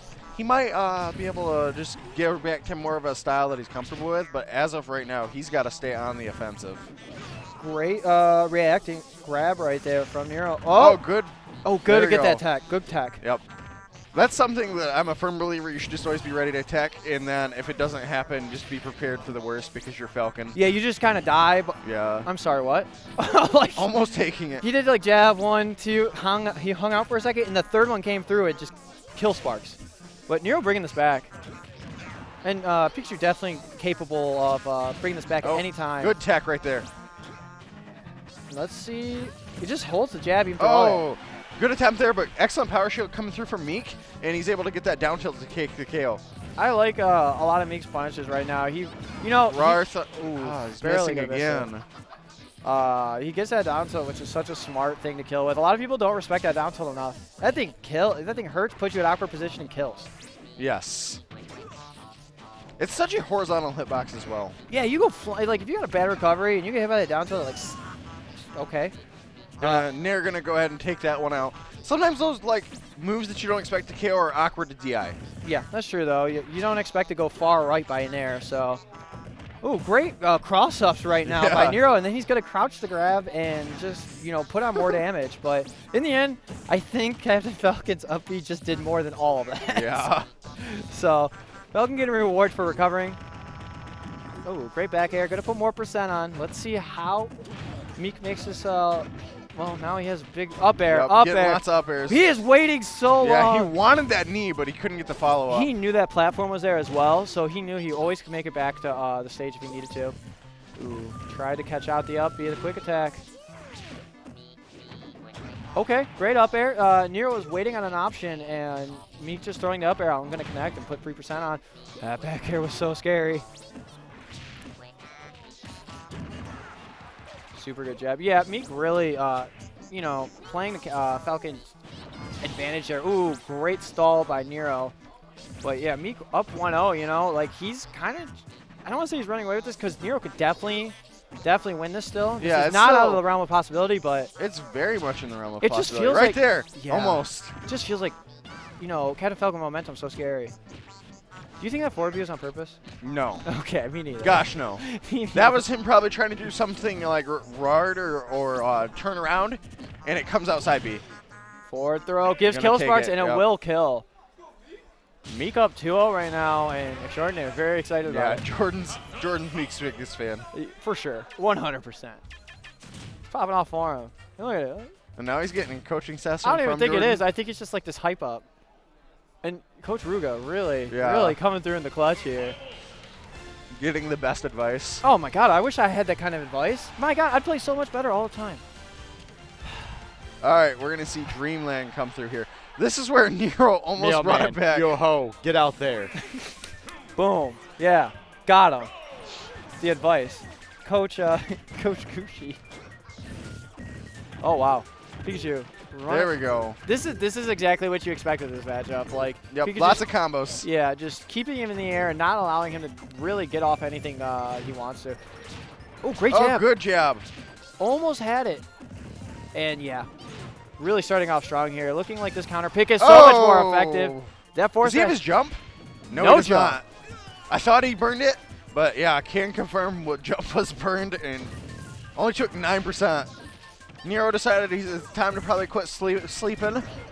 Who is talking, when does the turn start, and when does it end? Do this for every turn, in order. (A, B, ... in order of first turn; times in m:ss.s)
0:00.3-0:06.9 A
0:07.5-0:11.0 B
0:10.7-0:11.3 A
0:11.6-0:13.2 B
0:11.8-0:12.5 A
0:14.1-0:20.6 A
0:20.5-0:31.3 B
0:21.8-0:22.3 A
0:23.8-0:24.6 A
0:32.4-0:36.1 B
0:35.4-0:36.9 A
0:38.5-0:41.0 B
0:40.6-0:46.2 A
0:46.6-0:51.7 B
0:49.5-0:51.8 A
0:52.6-1:00.1 B
1:00.6-1:01.2 A
1:02.8-1:04.5 A
1:04.7-1:07.8 B
1:08.5-1:08.9 B
1:09.6-1:15.2 A
1:09.6-1:09.8 B
1:15.4-1:18.8 B
1:19.6-1:33.2 B
1:21.2-1:21.8 A
1:29.7-1:30.3 A
1:34.4-1:37.3 B
1:38.0-1:43.7 B
1:40.9-1:42.2 A
1:43.2-1:45.7 A
1:45.5-1:50.2 B
1:50.8-1:53.2 B
1:55.7-2:03.4 B
2:07.5-2:11.6 B
2:12.4-2:14.9 B
2:15.6-2:24.3 B
2:22.4-2:23.2 A
2:24.4-2:27.5 A
2:25.6-2:28.2 B
2:28.8-2:30.5 B
2:31.6-2:32.8 B
2:33.0-2:33.5 A
2:33.4-2:35.6 B
2:34.2-2:41.0 A
2:41.7-2:44.0 B
2:42.4-2:43.5 A
2:45.3-2:48.4 B
2:48.0-2:50.5 A
2:50.5-2:52.2 B
2:53.3-2:54.9 B
2:55.2-2:57.2 A
2:56.4-2:58.4 B
2:59.4-3:02.6 B
3:00.9-3:01.4 A
3:03.7-3:05.0 A
3:05.0-3:08.6 B
3:10.4-3:15.0 A
3:14.0-3:16.1 C
3:17.2-3:18.9 B
3:19.8-3:22.6 B
3:24.4-3:30.0 B
3:26.1-3:26.8 A
3:29.5-3:30.7 A
3:30.6-3:35.2 B
3:36.0-3:36.6 B
3:36.3-3:37.2 A
3:37.8-3:38.6 B
3:39.5-3:40.1 B
3:40.8-3:45.2 B
3:43.0-3:44.3 A
3:44.8-3:46.8 A
3:46.1-3:46.8 B
3:47.5-3:51.5 A
3:52.2-3:53.3 A
3:54.0-3:56.9 A